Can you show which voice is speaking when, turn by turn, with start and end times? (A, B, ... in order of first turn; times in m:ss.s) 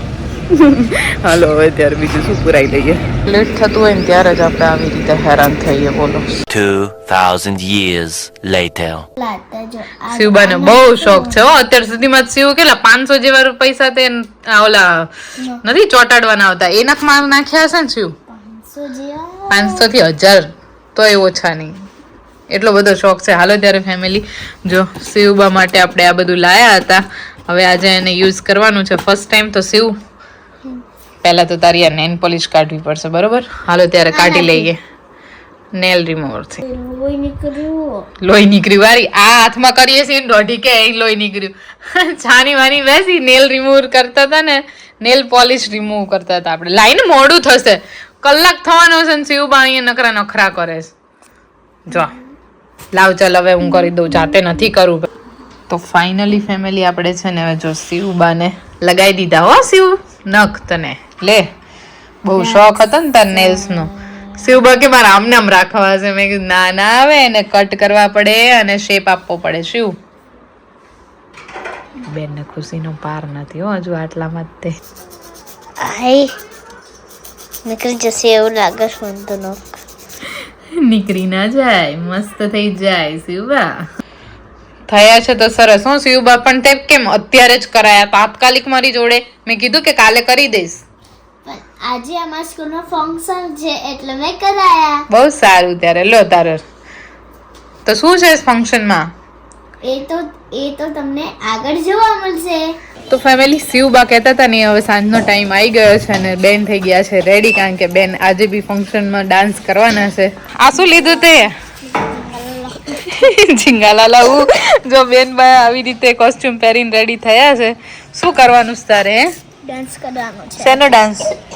0:00.5-0:06.3 A
0:06.5-0:09.0 B
0:09.2-0:11.4 C
0:10.1-0:15.1 A
0:15.6-0:18.1 A
0:18.3-0:19.8 C
0:19.5-0:21.7 A
0:22.5-0:29.9 A
0:31.2-0:34.8 A
0:34.1-0:34.7 C
0:35.8-0:36.6 A
0:36.6-0:38.0 C
0:38.2-0:50.9 A
0:51.9-0:52.1 A
0:52.9-0:55.1 A
0:55.7-1:01.4 A
1:02.2-1:09.9 A
1:02.4-1:02.8 C
1:03.3-1:04.2 C
1:12.1-1:14.7 A
1:15.8-1:16.3 C
1:17.6-1:19.6 C
1:20.8-1:23.7 A
1:24.9-1:30.8 A
1:31.4-1:35.0 C
1:35.1-1:36.6 A
1:37.8-1:39.1 A
1:39.8-1:42.6 C
1:43.1-1:51.5 A
1:50.7-1:53.0 C
1:53.1-1:59.3 A
1:59.6-2:00.8 C
2:00.6-2:01.3 A